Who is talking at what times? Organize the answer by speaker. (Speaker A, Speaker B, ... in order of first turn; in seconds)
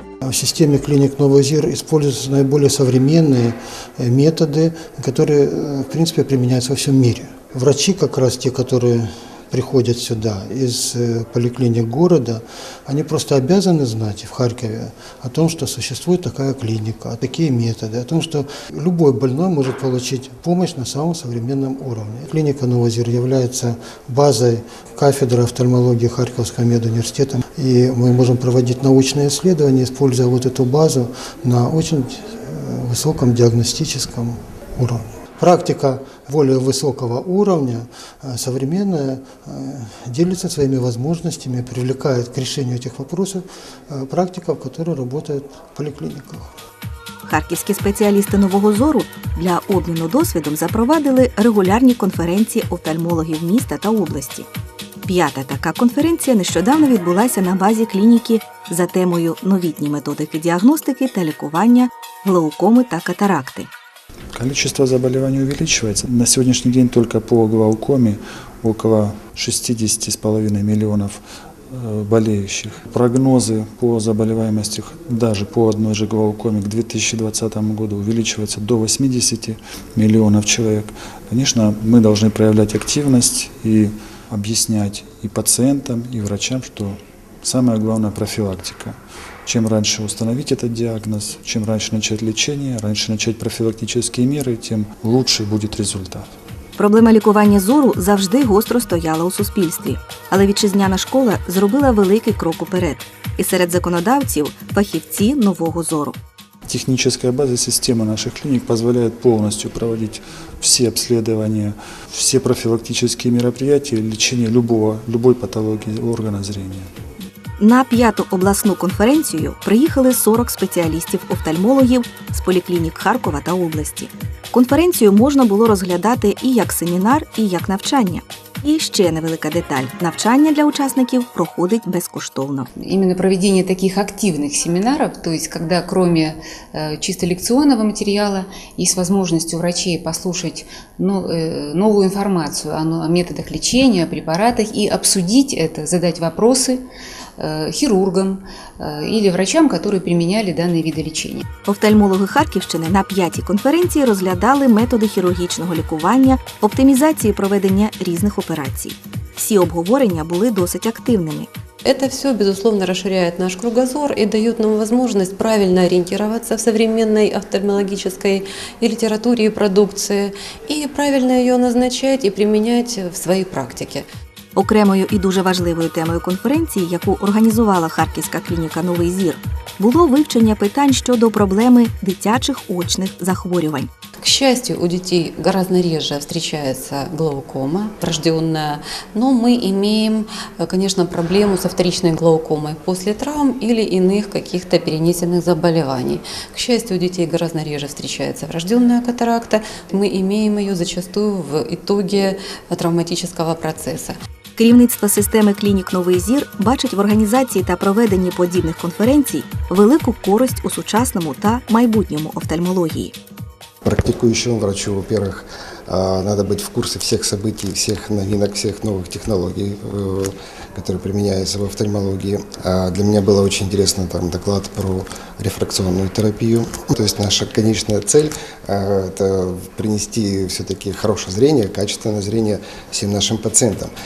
Speaker A: 0.3-46.5
Speaker B: 47.2-54.5, 55.0-63.7, 96.8-106.2, 117.6-132.7, 151.6-161.5, 174.5-183.9, 204.6-213.1
Speaker C: 64.3-96.3, 106.7-116.9
Speaker D: 132.8-146.8, 147.4-151.4
Speaker E: 161.8-174.1, 184.2-204.2
Speaker F: 213.8-233.9